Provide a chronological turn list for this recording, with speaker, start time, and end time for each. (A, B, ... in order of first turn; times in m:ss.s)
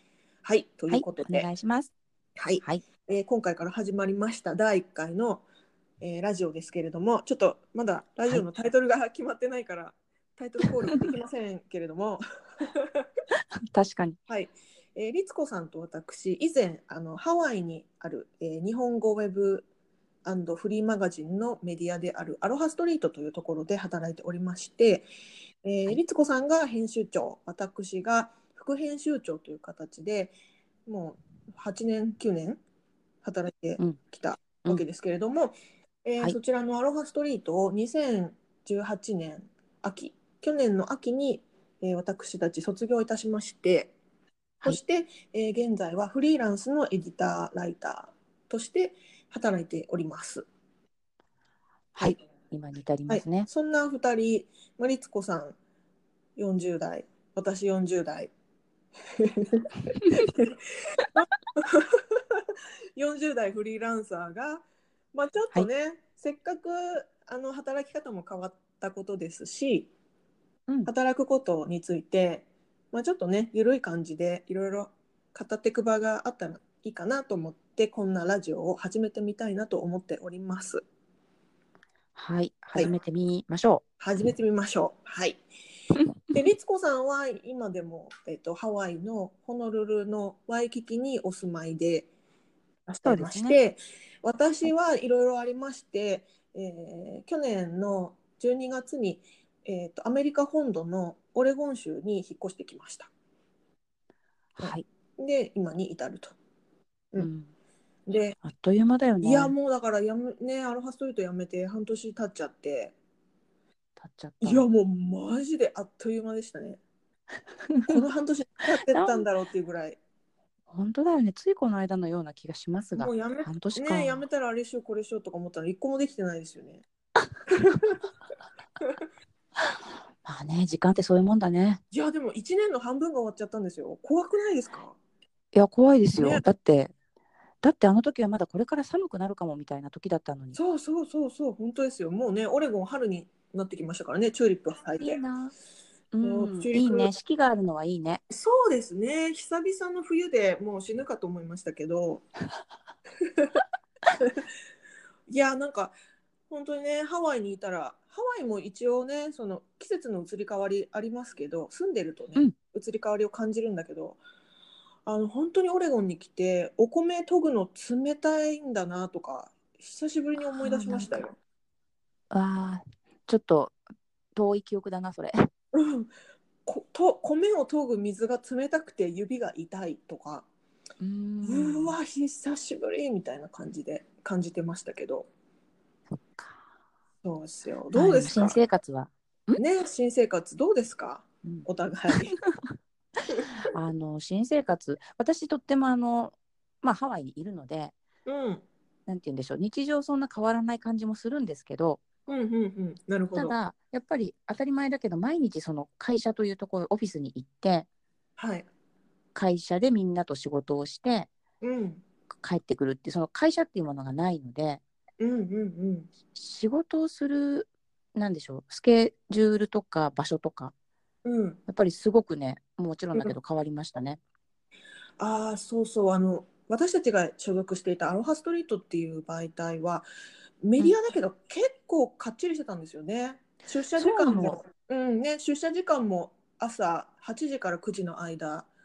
0:00.4-0:01.5 A
0:00.9-0:01.9 B
0:02.4-0:05.4 A
0:06.0-0:13.1 A
0:13.7-0:14.2 B
0:14.3-0:19.7 A
0:20.2-0:25.1 A
0:25.6-0:30.3 A
0:30.9-0:32.6 A
0:33.2-0:35.5 A
0:36.0-0:43.9 A
0:44.6-0:50.5 A
0:51.9-0:53.5 B
0:53.1-0:55.6 A
0:56.4-0:58.3 A
0:59.2-1:00.6 A
1:01.2-1:02.4 A
1:03.0-1:09.9 A
1:10.9-1:20.8 A
1:22.2-1:23.8 B
1:24.0-1:25.4 A
1:26.0-1:26.4 B
1:26.3-1:32.1 A
1:32.9-1:43.1 A
1:33.0-1:33.6 B
1:44.6-1:44.8 B
1:44.6-1:46.4 A
1:47.2-1:47.5 B
1:48.1-1:48.4 A
1:48.4-1:49.5 B
1:49.2-1:53.0 A
1:54.0-1:54.7 B
1:54.4-1:56.8 A
1:57.7-1:58.0 B
1:57.9-2:00.0 A
1:58.9-1:59.2 B
2:00.7-2:04.2 B
2:03.0-2:06.8 A
2:07.5-2:08.0 A
2:09.6-2:11.8 B
2:11.9-2:15.0 A
2:15.5-2:16.9 B
2:16.2-2:16.4 A
2:17.6-2:20.6 B
2:20.6-2:25.2 A
2:25.0-2:25.5 B
2:26.1-2:28.2 B
2:26.2-2:27.1 A
2:28.3-2:32.3 A
2:35.3-2:35.9 A
2:36.5-2:44.2 A
2:45.1-2:51.4 A
2:50.4-2:51.3 B
2:52.3-2:53.8 B
2:54.4-2:55.5 B
2:55.7-2:56.1 A
2:56.7-3:00.5 A
3:01.0-3:02.0 B
3:01.4-3:05.3 A
3:06.1-3:06.6 B
3:07.2-3:08.6 A
3:07.9-3:09.6 B
3:09.6-3:12.4 A
3:12.3-3:12.7 B
3:13.7-3:17.9 B
3:18.3-3:18.6 A
3:19.1-3:22.0 B
3:22.3-3:23.6 A
3:23.4-3:27.9 B
3:28.4-3:28.7 A
3:29.4-3:31.3 B
3:31.6-3:32.0 A
3:32.4-3:34.8 B
3:35.2-3:36.1 A
3:36.4-3:40.7 B
3:41.2-3:41.6 A
3:41.7-3:44.2 B
3:45.2-3:50.1 A
3:50.6-3:58.7 A
3:54.0-3:54.6 B